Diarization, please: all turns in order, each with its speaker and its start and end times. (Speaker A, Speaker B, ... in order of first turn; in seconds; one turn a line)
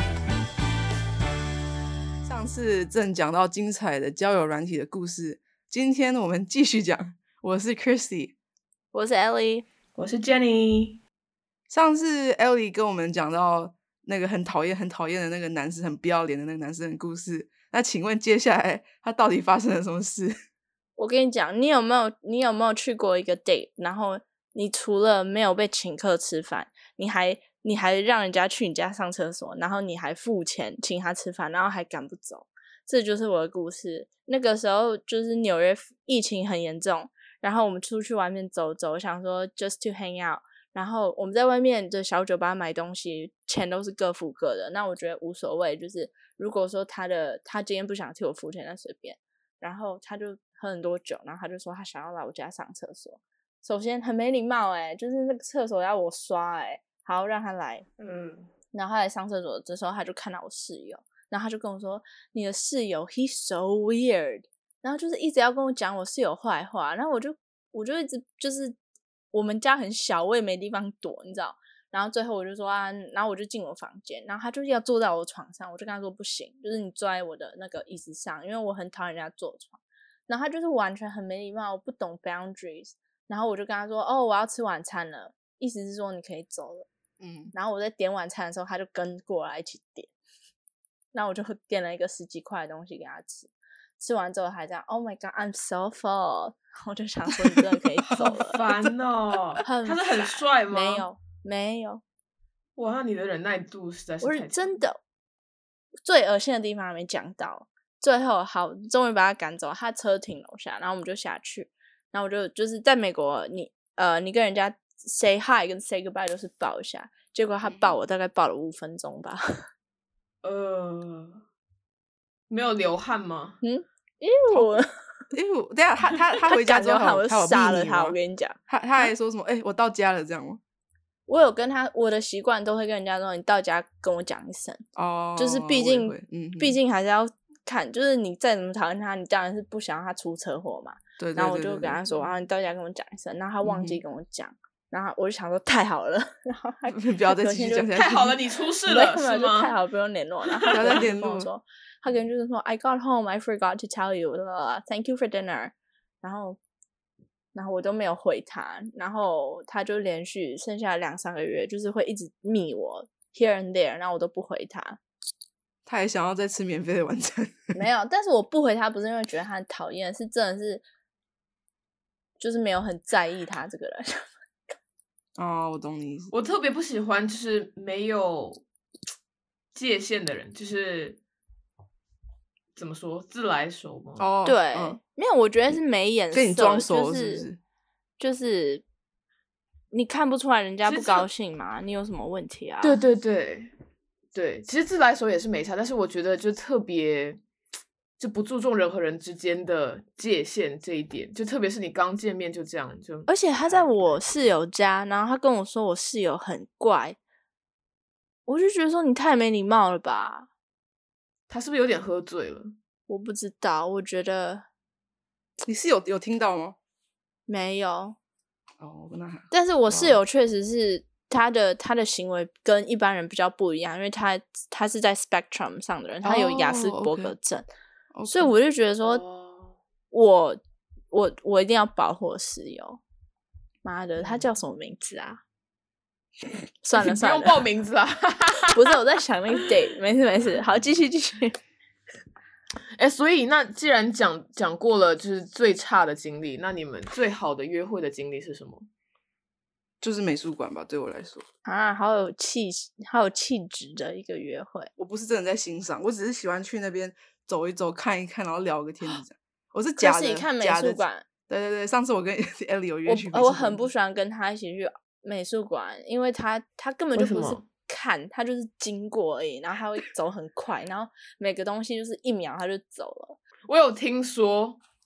Speaker A: 2.2-8.3
Speaker B: 8.9-9.6
Speaker C: 9.9-11.0
Speaker A: 11.7-20.4
Speaker B: 21.0-57.9
Speaker C: 58.0-58.5
Speaker B: 58.7-68.8
Speaker B: 69.3-86.9
Speaker A: 87.2-87.5
Speaker B: 87.5-90.1
Speaker B: 91.1-98.7
Speaker A: 97.3-98.2
Speaker C: 98.2-101.0
Speaker B: 99.6-102.0
Speaker C: 102.8-104.8
Speaker B: 104.2-105.0
Speaker B: 106.0-119.6
Speaker A: 117.6-118.0
Speaker C: 120.4-121.4
Speaker C: 122.5-123.6
Speaker B: 123.6-124.9
Speaker A: 125.3-128.2
Speaker B: 126.5-129.1
Speaker A: 128.7-130.6
Speaker B: 131.3-134.8
Speaker A: 134.9-136.8
Speaker B: 135.4-148.0
Speaker A: 141.2-142.0
Speaker A: 143.6-144.0
Speaker A: 146.9-148.4
Speaker C: 147.9-149.7
Speaker B: 148.8-156.6
Speaker C: 150.4-151.1
Speaker A: 150.7-151.5
Speaker B: 157.5-165.0
Speaker A: 165.8-167.8
Speaker B: 167.7-170.8
Speaker B: 172.4-174.2
Speaker A: 175.4-176.3
Speaker C: 176.3-178.6
Speaker C: 179.7-181.2
Speaker C: 182.7-184.2
Speaker A: 184.2-185.0
Speaker B: 184.4-187.4
Speaker A: 186.3-187.6
Speaker B: 188.2-188.8
Speaker B: 189.9-193.0
Speaker C: 190.8-191.3
Speaker C: 192.8-193.7
Speaker C: 194.3-197.4
Speaker C: 198.2-204.5
Speaker B: 203.3-207.2
Speaker B: 208.5-210.5
Speaker C: 211.5-212.7
Speaker B: 213.1-214.7
Speaker A: 215.6-216.8
Speaker B: 217.5-218.2
Speaker A: 218.8-220.2
Speaker B: 219.5-227.7
Speaker A: 226.2-227.3
Speaker A: 228.1-228.5
Speaker B: 228.3-229.2
Speaker C: 229.1-229.7
Speaker B: 230.1-230.6
Speaker B: 231.1-233.0
Speaker B: 233.8-235.4
Speaker B: 236.8-237.6
Speaker C: 236.9-239.0
Speaker B: 238.7-241.6
Speaker C: 243.0-248.8
Speaker A: 250.0-251.4
Speaker B: 251.7-254.9
Speaker A: 255.0-263.8
Speaker B: 260.0-261.2
Speaker B: 263.1-273.4
Speaker C: 267.1-267.6
Speaker C: 273.7-274.8